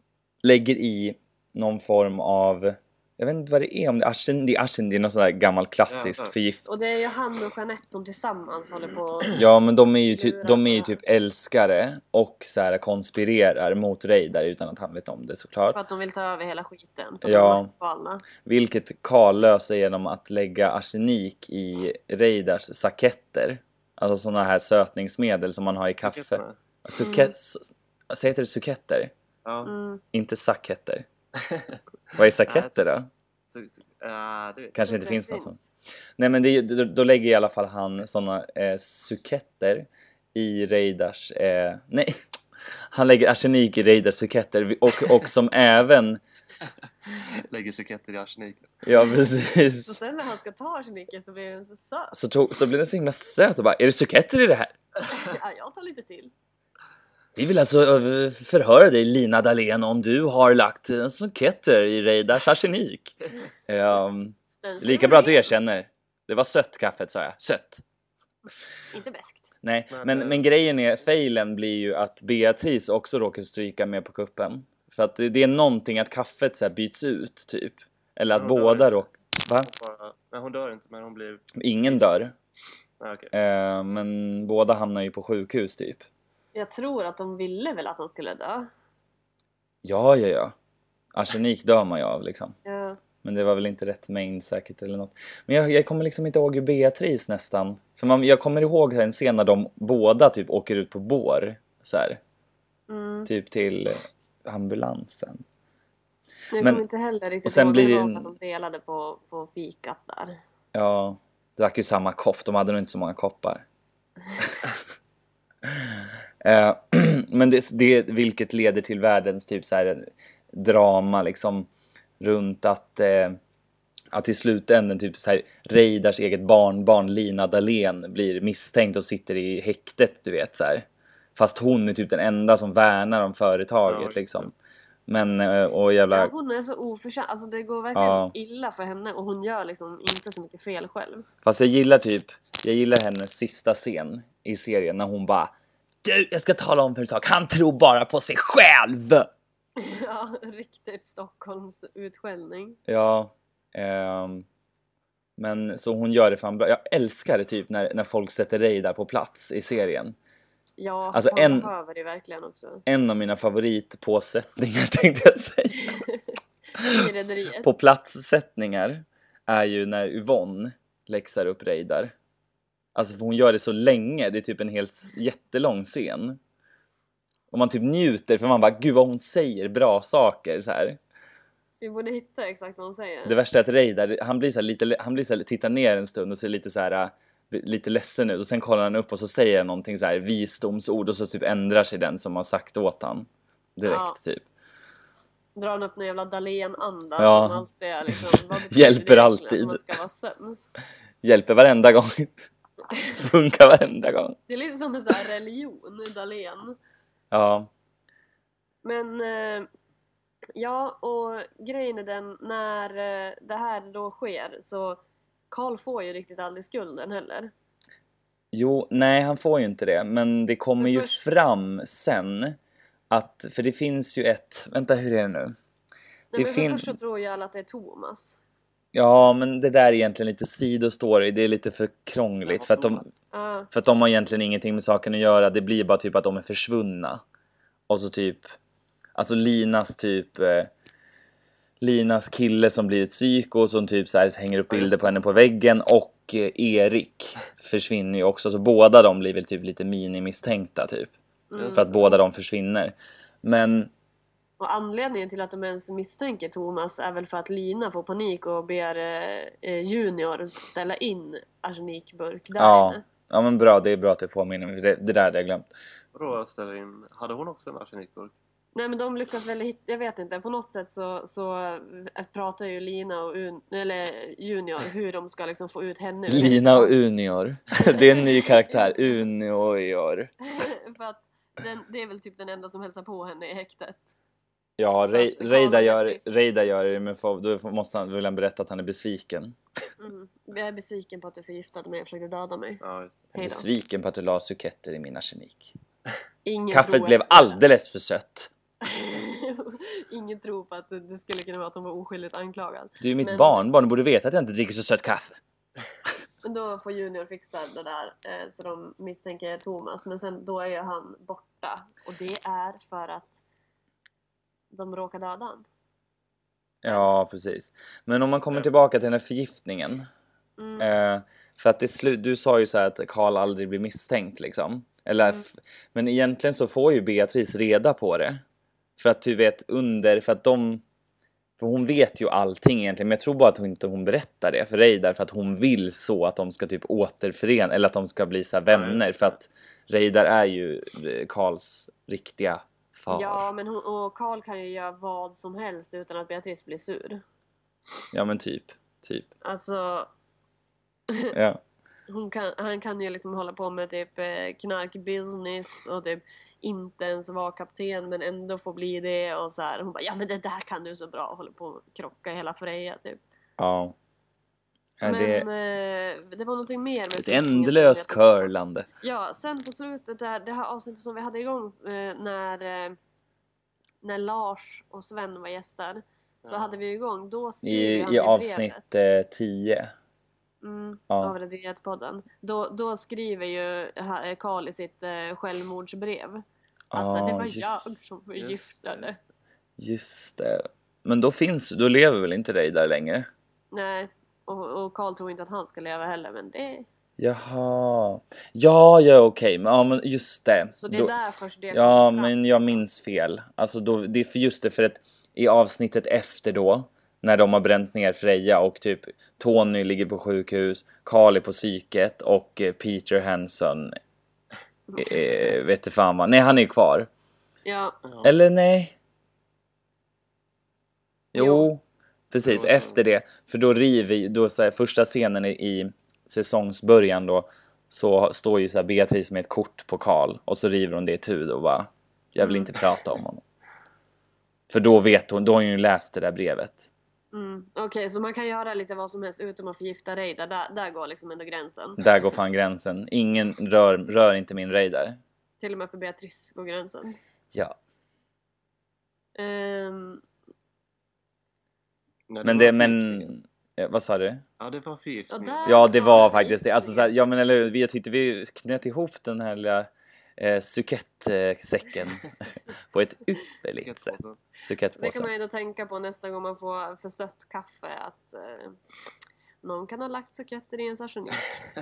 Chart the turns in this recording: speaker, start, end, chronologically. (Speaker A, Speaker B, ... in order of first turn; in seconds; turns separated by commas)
Speaker A: 0.4-6.7, Speaker B: 5.9-6.3, Speaker C: 6.7-9.4, Speaker A: 9.3-15.8, Speaker C: 10.1-10.9, Speaker C: 15.7-18.2, Speaker A: 17.2-17.7, Speaker A: 18.4-29.1, Speaker B: 26.0-26.6, Speaker C: 27.0-27.3, Speaker B: 29.4-29.7, Speaker C: 29.7-30.0, Speaker A: 30.1-31.1, Speaker B: 31.4-31.8, Speaker A: 32.1-33.1, Speaker B: 32.5-32.8, Speaker B: 33.5-34.8, Speaker A: 34.8-35.6, Speaker C: 34.9-35.7, Speaker A: 36.2-42.2, Speaker A: 42.9-46.2, Speaker B: 47.2-48.7, Speaker A: 48.8-50.0, Speaker C: 49.9-52.1, Speaker A: 52.1-54.8, Speaker C: 55.1-56.3, Speaker A: 57.4-63.2, Speaker A: 63.7-67.8, Speaker C: 64.6-65.5, Speaker C: 68.9-69.5, Speaker A: 69.6-79.7, Speaker B: 69.9-70.5, Speaker B: 78.3-79.0, Speaker B: 79.6-81.5, Speaker A: 81.6-82.3, Speaker B: 83.0-83.3, Speaker A: 83.3-86.1, Speaker C: 86.5-88.7, Speaker A: 89.8-90.5, Speaker A: 91.1-92.5, Speaker C: 92.7-93.0, Speaker A: 93.2-102.2, Speaker C: 102.9-103.3, Speaker A: 103.3-105.4, Speaker C: 106.5-110.4, Speaker A: 106.6-106.8, Speaker A: 107.5-108.3, Speaker A: 110.7-113.7, Speaker A: 115.7-121.7, Speaker A: 122.2-123.4, Speaker A: 124.1-134.5, Speaker B: 133.9-134.5, Speaker A: 135.1-136.3, Speaker C: 136.1-141.3, Speaker A: 138.0-138.3, Speaker A: 141.4-145.5, Speaker A: 146.0-149.3, Speaker C: 149.8-152.8, Speaker A: 152.9-154.5, Speaker A: 155.4-160.2, Speaker C: 160.8-162.8, Speaker A: 161.1-161.7, Speaker A: 162.9-166.0, Speaker C: 165.8-166.2, Speaker C: 166.8-167.7, Speaker A: 167.6-172.1, Speaker A: 172.9-176.4, Speaker A: 177.5-181.0, Speaker C: 181.8-183.3, Speaker A: 183.3-194.4, Speaker C: 193.9-194.2, Speaker C: 195.6-200.7, Speaker A: 197.2-197.6, Speaker A: 198.2-199.8, Speaker A: 201.2-202.3, Speaker A: 202.9-204.4, Speaker C: 204.5-206.8, Speaker A: 207.3-207.7, Speaker C: 208.8-209.7, Speaker C: 210.6-215.0, Speaker C: 215.5-217.5, Speaker A: 218.5-222.6, Speaker C: 220.8-221.2, Speaker A: 223.1-225.6, Speaker C: 226.3-228.4, Speaker A: 226.3-226.9, Speaker A: 228.9-233.1, Speaker B: 232.5-233.2, Speaker C: 233.3-233.7, Speaker A: 233.7-237.2, Speaker A: 237.9-238.5, Speaker A: 239.2-240.7, Speaker A: 241.8-251.1, Speaker B: 244.7-245.2, Speaker C: 251.5-251.9, Speaker B: 251.6-252.1, Speaker A: 251.8-253.9, Speaker C: 254.6-263.0, Speaker A: 262.6-265.7, Speaker B: 266.1-268.3, Speaker C: 268.8-276.9, Speaker A: 276.3-280.3, Speaker C: 277.8-279.0, Speaker C: 280.5-284.1, Speaker A: 284.8-289.6, Speaker C: 285.1-286.4, Speaker C: 290.0-292.8, Speaker B: 292.8-293.3, Speaker A: 293.3-295.8, Speaker C: 293.4-293.7, Speaker C: 296.4-297.6, Speaker A: 296.7-298.5, Speaker C: 298.8-303.7, Speaker A: 303.0-305.4, Speaker C: 306.4-313.4, Speaker C: 314.7-315.7, Speaker A: 316.8-320.1, Speaker C: 320.6-320.9, Speaker A: 320.8-328.4, Speaker A: 329.0-330.8, Speaker A: 331.6-343.4, Speaker B: 338.7-339.4, Speaker C: 343.1-347.2, Speaker A: 348.1-349.3, Speaker C: 349.4-350.1, Speaker A: 351.3-351.6, Speaker C: 352.1-363.2, Speaker A: 363.6-363.9, Speaker A: 365.0-365.5, Speaker C: 365.1-368.5, Speaker A: 367.2-368.9, Speaker C: 369.0-373.0, Speaker C: 374.0-379.0, Speaker B: 376.4-376.7, Speaker A: 377.6-379.9, Speaker C: 380.6-389.2, Speaker A: 381.1-381.4, Speaker A: 386.9-388.0, Speaker B: 388.4-389.3, Speaker A: 389.8-393.3, Speaker C: 393.7-396.9, Speaker A: 397.2-401.1, Speaker C: 400.8-402.8, Speaker A: 401.7-414.0, Speaker C: 414.9-415.2, Speaker A: 415.0-417.1, Speaker C: 417.6-418.0, Speaker B: 418.1-418.3, Speaker A: 418.2-419.0, Speaker A: 421.3-433.4, Speaker C: 421.4-421.7, Speaker B: 422.4-423.0, Speaker C: 432.4-432.7, Speaker A: 434.7-436.9, Speaker C: 437.3-442.0, Speaker A: 442.0-445.2, Speaker C: 445.6-447.2, Speaker A: 447.5-447.8, Speaker C: 449.4-450.2, Speaker B: 452.3-453.3, Speaker A: 452.4-454.4, Speaker B: 454.6-455.9, Speaker C: 455.3-457.1, Speaker A: 455.7-462.3, Speaker A: 462.9-465.3, Speaker B: 463.7-464.4, Speaker C: 465.0-468.8, Speaker C: 469.6-471.6